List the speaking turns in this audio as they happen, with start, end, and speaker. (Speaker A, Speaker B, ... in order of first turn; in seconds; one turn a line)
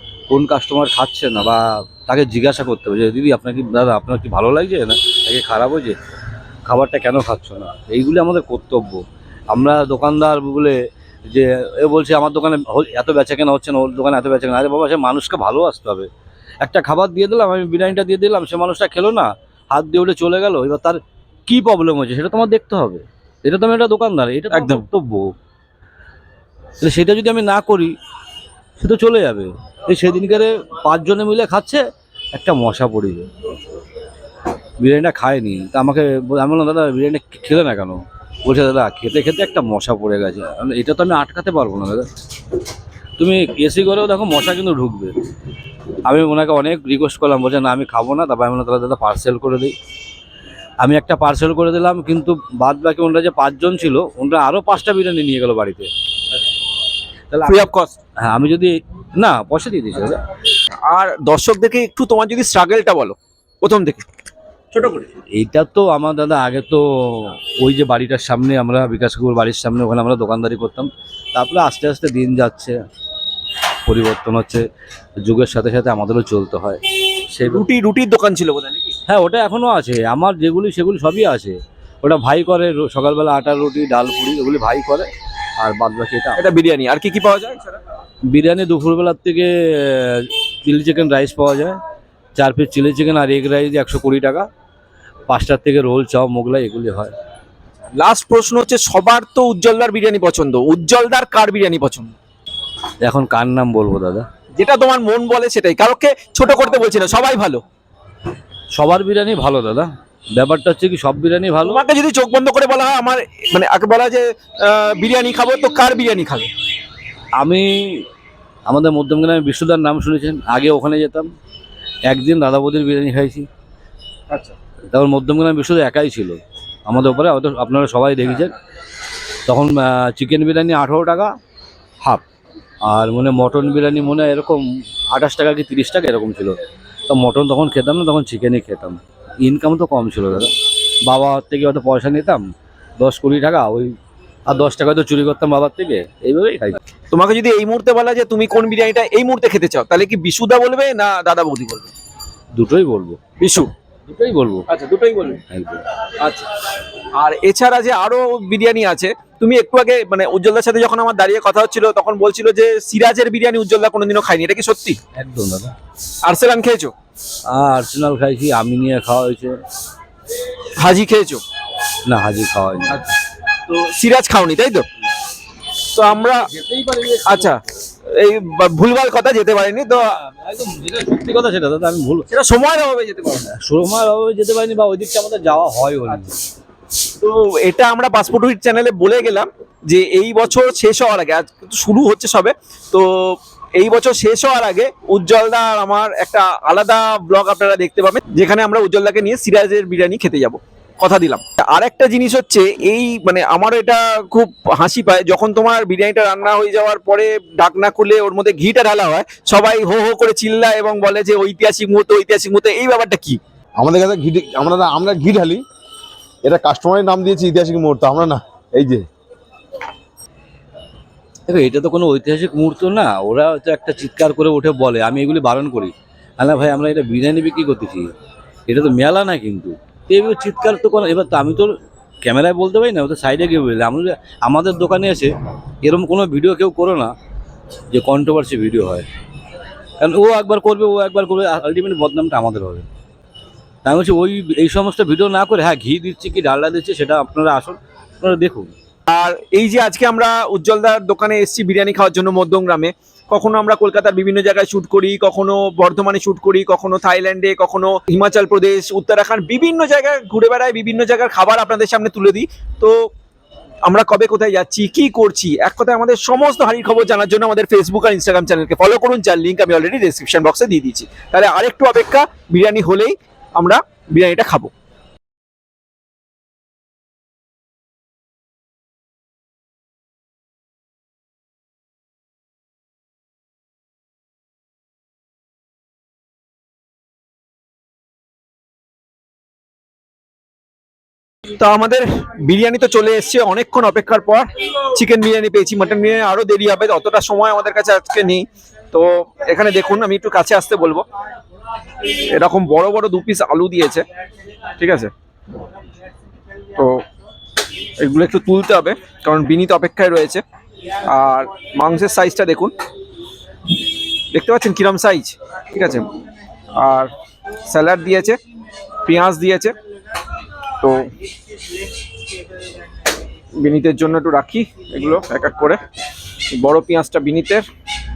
Speaker A: 0.3-6.0
Speaker A: 6.7-16.1
Speaker A: 16.6-25.3
Speaker A: 26.8-27.9
Speaker A: 28.8-31.8
Speaker A: 32.3-33.3
Speaker A: 34.8-42.1
Speaker A: 43.2-45.1
Speaker A: 46.1-49.7
Speaker A: 50.8-55.9
Speaker A: 57.3-57.7
Speaker B: 57.6-57.9
Speaker A: 58.2-60.2
Speaker B: 60.9-64.0
Speaker B: 64.7-65.1
Speaker A: 65.3-72.8
Speaker A: 73.9-74.6
Speaker A: 75.2-77.6
Speaker B: 77.8-78.9
Speaker A: 79.1-85.1
Speaker A: 85.6-86.4
Speaker B: 86.5-87.5
Speaker A: 88.3-91.8
Speaker A: 92.4-94.5
Speaker A: 95.3-97.1
Speaker B: 98.0-102.1
Speaker A: 103.0-104.2
Speaker B: 104.6-107.6
Speaker A: 108.8-111.8
Speaker B: 111.8-116.5
Speaker A: 117.4-118.1
Speaker A: 118.7-121.3
Speaker A: 122.1-123.5
Speaker A: 124.9-128.5
Speaker A: 129.4-131.3
Speaker A: 132.8-136.6
Speaker A: 137.1-140.5
Speaker A: 141.1-142.5
Speaker A: 143.0-143.9
Speaker A: 144.5-146.8
Speaker B: 147.1-151.8
Speaker A: 152.5-153.2
Speaker A: 154.1-154.7
Speaker B: 154.8-155.3
Speaker A: 155.5-155.8
Speaker B: 157.2-165.0
Speaker A: 165.1-165.7
Speaker B: 166.3-166.9
Speaker A: 167.5-169.6
Speaker B: 170.9-171.4
Speaker A: 172.1-173.0
Speaker B: 173.7-174.8
Speaker B: 175.9-176.3
Speaker A: 176.1-177.5
Speaker B: 178.2-180.0
Speaker A: 180.2-182.3
Speaker B: 182.4-183.4
Speaker A: 183.5-186.3
Speaker B: 187.2-213.4
Speaker C: 213.8-215.6
Speaker C: 216.4-219.1
Speaker A: 221.5-228.1
Speaker A: 228.7-237.1
Speaker A: 237.9-239.1
Speaker A: 240.0-242.8
Speaker A: 243.8-248.7
Speaker B: 249.1-263.0
Speaker B: 263.9-274.7
Speaker B: 291.6-298.4
Speaker B: 298.9-301.0
Speaker B: 302.3-304.0
Speaker B: 304.8-305.1
Speaker B: 308.0-310.4
Speaker B: 311.1-312.7
Speaker B: 314.3-316.0
Speaker B: 316.8-317.1
Speaker B: 317.7-318.3
Speaker B: 319.1-319.6
Speaker B: 323.6-325.8
Speaker B: 326.6-327.6